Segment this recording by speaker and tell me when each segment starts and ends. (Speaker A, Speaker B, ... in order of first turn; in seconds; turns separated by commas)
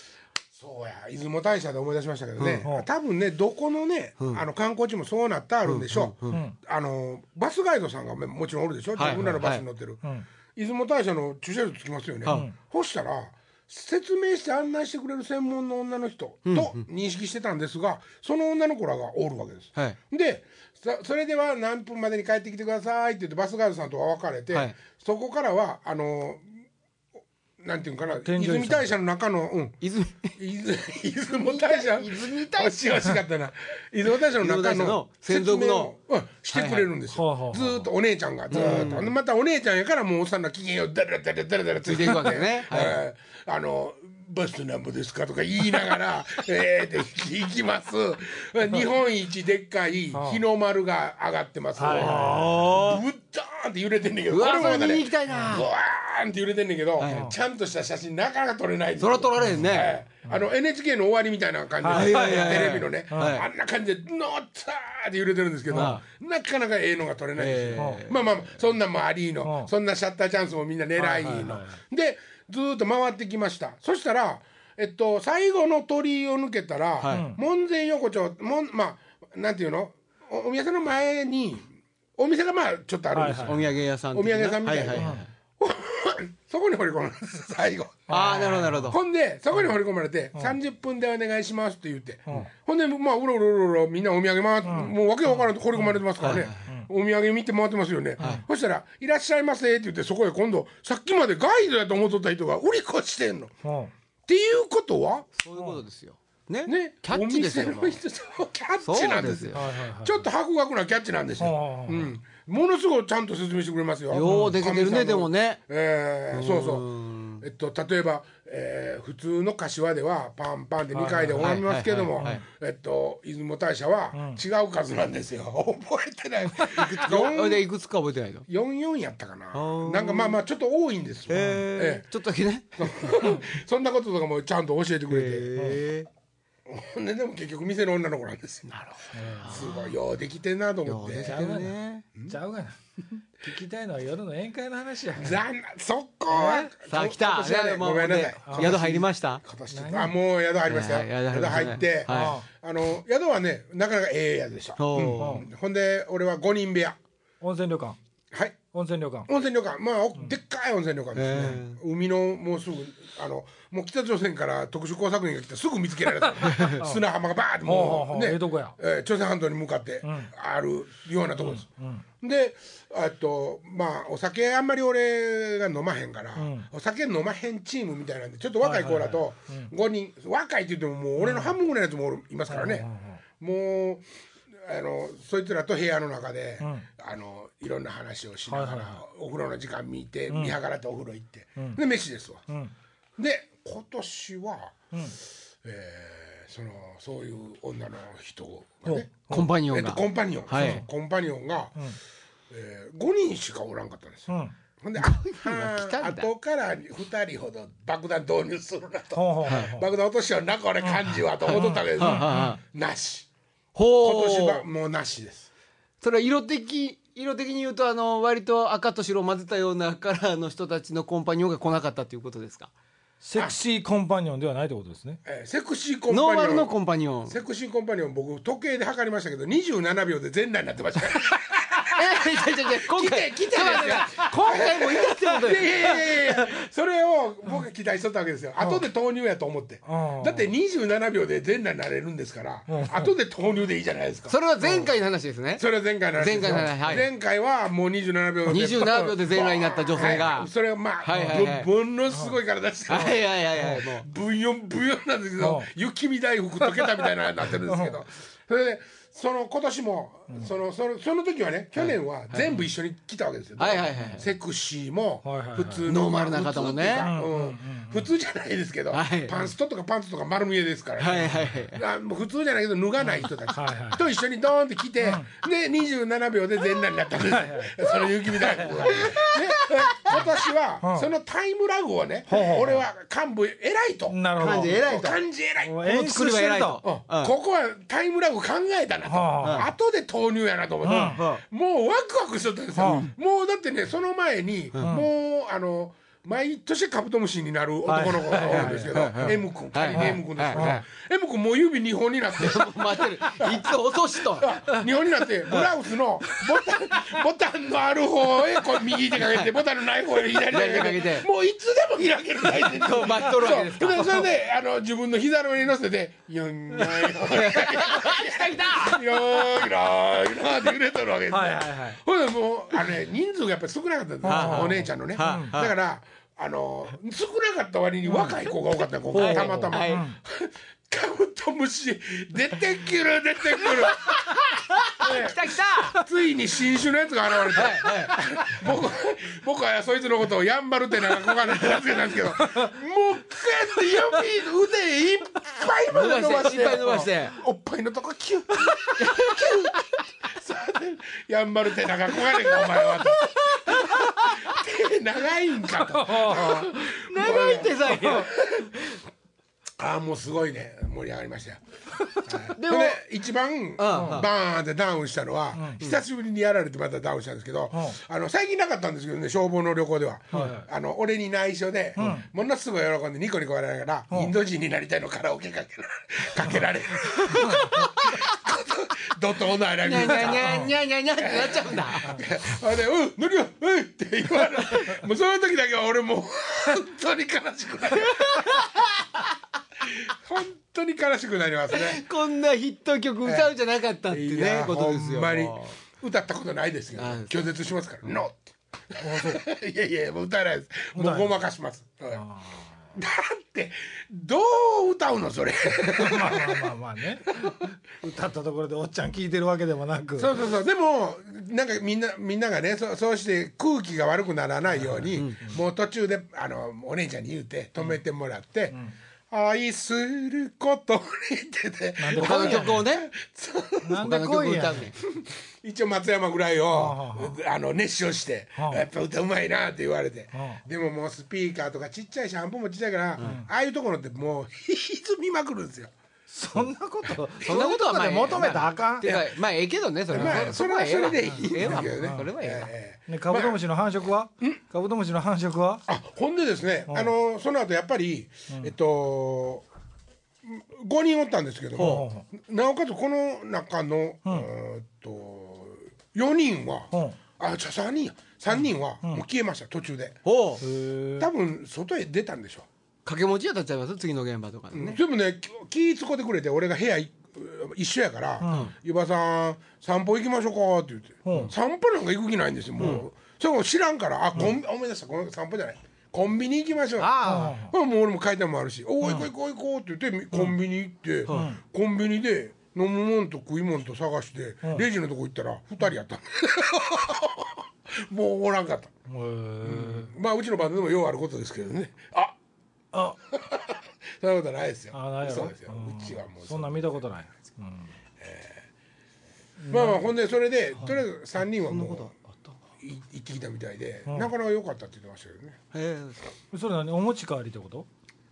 Speaker A: 0.6-10.0, Speaker B: 2.4-2.6, Speaker B: 5.6-6.4, Speaker C: 6.3-6.6, Speaker B: 9.0-9.6, Speaker C: 9.1-9.4, Speaker A: 10.6-26.5, Speaker B: 12.2-12.5, Speaker C: 12.3-12.5, Speaker B: 16.4-16.8, Speaker B: 24.5-24.8, Speaker A: 27.6-29.8, Speaker C: 28.2-28.9, Speaker B: 29.8-30.4, Speaker A: 30.4-88.3, Speaker B: 31.4-33.0, Speaker B: 34.2-35.9, Speaker B: 36.5-36.9, Speaker C: 37.1-37.9, Speaker B: 38.5-39.1, Speaker B: 41.8-43.0, Speaker C: 50.1-50.4, Speaker C: 51.8-52.9, Speaker B: 51.9-53.0, Speaker B: 54.3-55.7, Speaker B: 57.0-57.3, Speaker C: 57.0-57.4, Speaker B: 59.0-60.0, Speaker C: 59.4-59.7, Speaker C: 61.8-63.4, Speaker B: 61.9-63.5, Speaker C: 65.7-66.0, Speaker B: 65.7-66.0, Speaker B: 67.4-68.4, Speaker C: 67.8-68.0, Speaker C: 69.4-69.7, Speaker C: 71.0-71.8, Speaker B: 77.0-77.3, Speaker C: 77.1-77.4, Speaker C: 83.1-83.6, Speaker B: 83.5-85.3, Speaker C: 85.0-85.2, Speaker C: 88.1-89.0, Speaker B: 88.1-89.0, Speaker A: 88.9-103.5, Speaker C: 94.6-94.9, Speaker C: 95.8-96.9, Speaker B: 96.2-96.7, Speaker C: 103.6-103.9, Speaker A: 104.2-105.3, Speaker B: 105.4-108.0, Speaker A: 106.6-116.9, Speaker B: 108.8-109.7, Speaker C: 109.5-110.3, Speaker C: 111.4-112.1, Speaker B: 114.1-115.6, Speaker C: 114.2-114.6, Speaker B: 116.3-117.4, Speaker A: 117.4-127.6, Speaker C: 120.9-121.6, Speaker B: 121.4-122.4, Speaker C: 124.1-124.4, Speaker B: 126.7-128.5, Speaker A: 128.5-132.1, Speaker B: 129.5-130.4, Speaker B: 131.3-133.4, Speaker C: 131.3-131.7, Speaker A: 132.8-135.5, Speaker B: 135.1-136.1, Speaker C: 135.6-135.8, Speaker A: 136.7-138.8, Speaker B: 138.7-139.9, Speaker C: 139.1-139.7, Speaker A: 139.4-141.4, Speaker B: 140.8-142.0, Speaker C: 141.2-145.4, Speaker A: 145.2-157.0, Speaker C: 146.3-146.7, Speaker B: 146.8-149.4, Speaker C: 148.5-148.8, Speaker C: 149.7-150.1, Speaker B: 150.7-152.4, Speaker C: 152.1-152.4, Speaker B: 154.8-155.4, Speaker C: 155.2-155.5, Speaker C: 157.4-158.0, Speaker A: 158.3-158.6, Speaker C: 158.7-159.3, Speaker A: 159.3-171.6, Speaker B: 161.1-161.8, Speaker C: 166.4-167.0, Speaker B: 166.5-166.8, Speaker C: 167.6-168.8, Speaker C: 170.0-170.3, Speaker C: 171.4-172.0, Speaker A: 172.2-192.4, Speaker C: 176.4-176.7, Speaker C: 178.6-179.7, Speaker C: 181.2-181.6, Speaker C: 182.5-183.2, Speaker C: 186.6-186.9, Speaker C: 188.5-189.0, Speaker C: 190.3-190.6, Speaker A: 193.2-194.8, Speaker A: 195.6-199.1, Speaker C: 198.9-199.5, Speaker B: 199.3-200.8, Speaker A: 199.7-201.9, Speaker C: 200.6-200.8, Speaker A: 202.5-213.3, Speaker C: 204.3-204.5, Speaker B: 205.0-206.3, Speaker C: 209.1-209.9, Speaker B: 209.5-209.8, Speaker C: 210.8-212.6, Speaker B: 211.4-212.6, Speaker B: 213.8-214.6, Speaker A: 214.0-215.5, Speaker B: 216.0-222.7, Speaker C: 223.2-225.2, Speaker A: 225.2-226.7, Speaker B: 226.1-227.4, Speaker A: 227.3-244.9, Speaker B: 231.9-236.2, Speaker C: 239.8-240.5, Speaker C: 242.7-243.1, Speaker B: 244.3-247.1, Speaker A: 245.6-285.8, Speaker B: 248.5-250.5, Speaker B: 251.0-251.7, Speaker C: 251.1-251.5, Speaker C: 252.1-252.4, Speaker B: 252.9-254.1, Speaker C: 253.6-253.8, Speaker C: 255.4-255.7, Speaker C: 257.6-257.9, Speaker B: 261.8-262.6, Speaker B: 263.6-264.3, Speaker C: 265.2-265.9, Speaker B: 265.9-267.1, Speaker C: 267.0-268.1, Speaker B: 268.9-269.4, Speaker B: 271.0-271.8, Speaker C: 271.2-271.6, Speaker C: 273.5-274.1, Speaker C: 275.0-275.3, Speaker C: 277.2-279.1, Speaker B: 278.9-280.3, Speaker C: 280.8-281.1, Speaker C: 282.3-282.8, Speaker C: 284.1-284.8, Speaker B: 284.4-285.2, Speaker C: 285.6-286.8, Speaker B: 285.8-287.3, Speaker A: 286.8-334.3, Speaker C: 289.1-289.7, Speaker B: 289.4-289.7, Speaker C: 290.8-291.2, Speaker B: 290.9-291.4, Speaker C: 292.8-293.1, Speaker C: 297.9-299.4, Speaker B: 298.5-300.8, Speaker C: 299.9-300.8, Speaker B: 302.4-304.9, Speaker B: 306.2-306.6, Speaker B: 308.8-309.5, Speaker B: 310.4-311.2, Speaker B: 312.5-314.3, Speaker B: 316.8-319.7, Speaker C: 321.3-322.0, Speaker C: 324.2-325.6, Speaker B: 324.2-325.8, Speaker B: 329.1-330.1, Speaker C: 329.1-330.2, Speaker B: 333.6-336.0, Speaker A: 334.9-358.8, Speaker B: 337.3-338.6, Speaker B: 341.5-341.9, Speaker B: 345.9-347.4, Speaker B: 349.0-349.9, Speaker B: 352.1-354.5, Speaker C: 356.1-356.5, Speaker B: 356.2-358.9, Speaker A: 359.8-361.6, Speaker A: 362.2-388.7, Speaker B: 362.6-363.0, Speaker B: 363.8-364.3, Speaker C: 363.9-364.3, Speaker C: 365.6-365.8, Speaker C: 370.3-370.7, Speaker C: 372.0-372.3, Speaker B: 377.1-378.3, Speaker B: 379.8-382.2, Speaker C: 380.2-380.7, Speaker B: 388.0-388.9, Speaker A: 389.9-392.0, Speaker B: 391.7-395.8, Speaker A: 393.2-393.5, Speaker A: 394.1-402.2, Speaker B: 397.0-397.5, Speaker C: 399.0-399.4, Speaker C: 400.9-401.4, Speaker C: 402.1-402.7, Speaker A: 402.9-406.7, Speaker C: 405.9-410.3, Speaker A: 407.3-407.6, Speaker A: 410.2-418.8, Speaker C: 414.7-415.6, Speaker A: 419.3-424.1, Speaker C: 422.0-422.9, Speaker B: 422.1-423.1, Speaker C: 423.8-424.9, Speaker B: 424.0-425.0, Speaker A: 425.1-435.9, Speaker C: 426.7-427.4, Speaker C: 428.6-428.8, Speaker C: 430.3-430.6, Speaker C: 433.2-433.5, Speaker C: 436.3-439.2, Speaker B: 437.4-442.7, Speaker A: 440.1-443.6, Speaker C: 440.1-440.5, Speaker C: 441.5-442.3, Speaker C: 443.1-445.9, Speaker A: 445.9-449.6, Speaker A: 450.4-460.2, Speaker B: 451.8-452.0, Speaker C: 451.8-452.2, Speaker C: 456.9-457.2, Speaker B: 460.2-460.6, Speaker C: 460.6-461.3, Speaker A: 461.2-462.7, Speaker B: 463.0-465.0, Speaker A: 464.7-488.9, Speaker C: 468.4-468.7, Speaker B: 468.5-468.7, Speaker C: 471.2-471.5, Speaker B: 472.8-473.0, Speaker B: 477.0-477.6, Speaker C: 477.2-477.7, Speaker C: 479.0-479.3, Speaker B: 481.3-481.5, Speaker C: 481.3-481.6, Speaker C: 489.1-490.1, Speaker A: 489.6-492.4, Speaker C: 492.9-493.2, Speaker A: 493.3-496.9, Speaker C: 494.9-497.9, Speaker A: 498.2-498.6, Speaker C: 499.6-500.1, Speaker A: 499.7-502.1, Speaker B: 501.5-502.6, Speaker A: 502.8-505.6, Speaker B: 505.7-506.3, Speaker C: 506.5-507.9